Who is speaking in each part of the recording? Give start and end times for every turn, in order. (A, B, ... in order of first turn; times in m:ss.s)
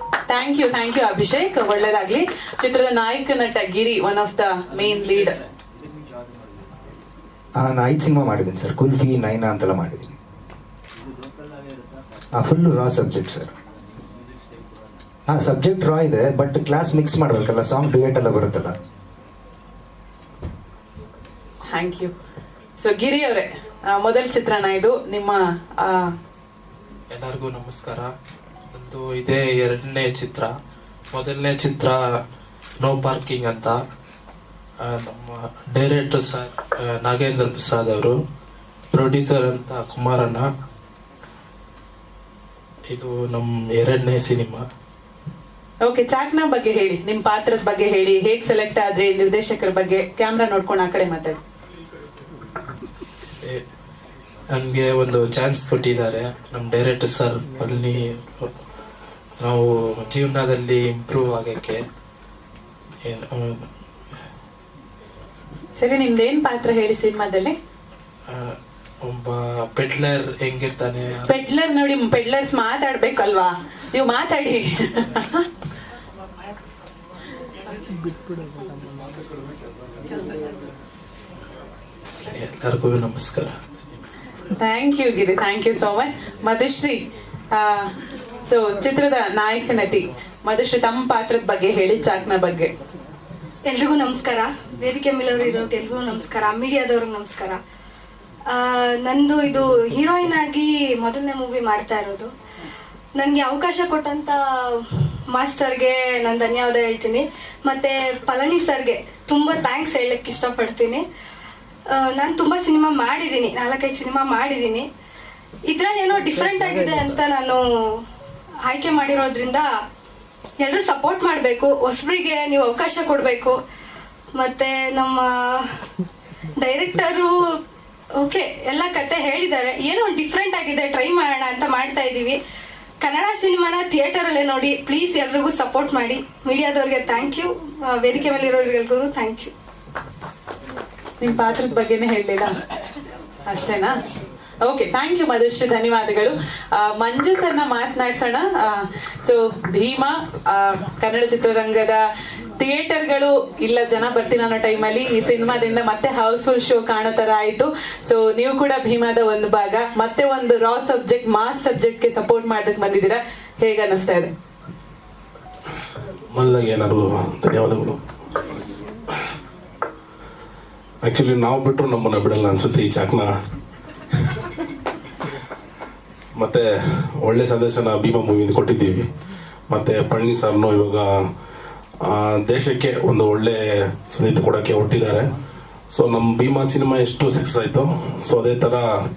0:00.3-0:05.4 A
0:07.6-0:10.2 B
0:12.4-0:13.5 B
0:15.3-0:18.8 B
0:21.7-0:22.1 A
0:22.8-0:26.1 A
0:27.1-0:28.1 C
0:28.7-0:30.5 C
0:31.1-0:32.0 C
0:32.8-0:33.8 C
0:34.8-0:38.2 C
0:38.9-0:40.5 C
0:42.9-0:44.6 C
0:45.8-0:51.4 A
0:54.5-0:58.5 C
0:59.4-1:01.8 C
1:03.1-1:03.7 C
1:05.8-1:07.6 A
1:08.3-1:11.3 C
1:11.3-1:15.4 A
1:22.1-1:23.6 C
1:24.6-1:27.0 A
1:27.5-1:27.9 A
1:28.5-1:32.7 A
1:33.7-1:37.6 D
1:38.5-1:42.3 D
1:43.2-1:51.0 D
1:51.9-1:54.9 D
1:55.7-1:57.6 D
1:58.6-1:59.6 D
2:00.6-2:03.6 D
2:04.4-2:05.7 D
2:06.6-2:07.4 D
2:08.2-2:12.4 D
2:13.0-2:19.5 D
2:21.2-2:22.6 A
2:23.5-2:24.0 A
2:24.6-2:32.0 A
2:32.6-2:44.3 A
2:46.3-2:48.0 E
2:51.0-2:53.3 E
2:56.4-2:59.0 E
2:59.7-3:01.1 E
3:02.0-3:05.2 E
3:05.9-3:08.9 E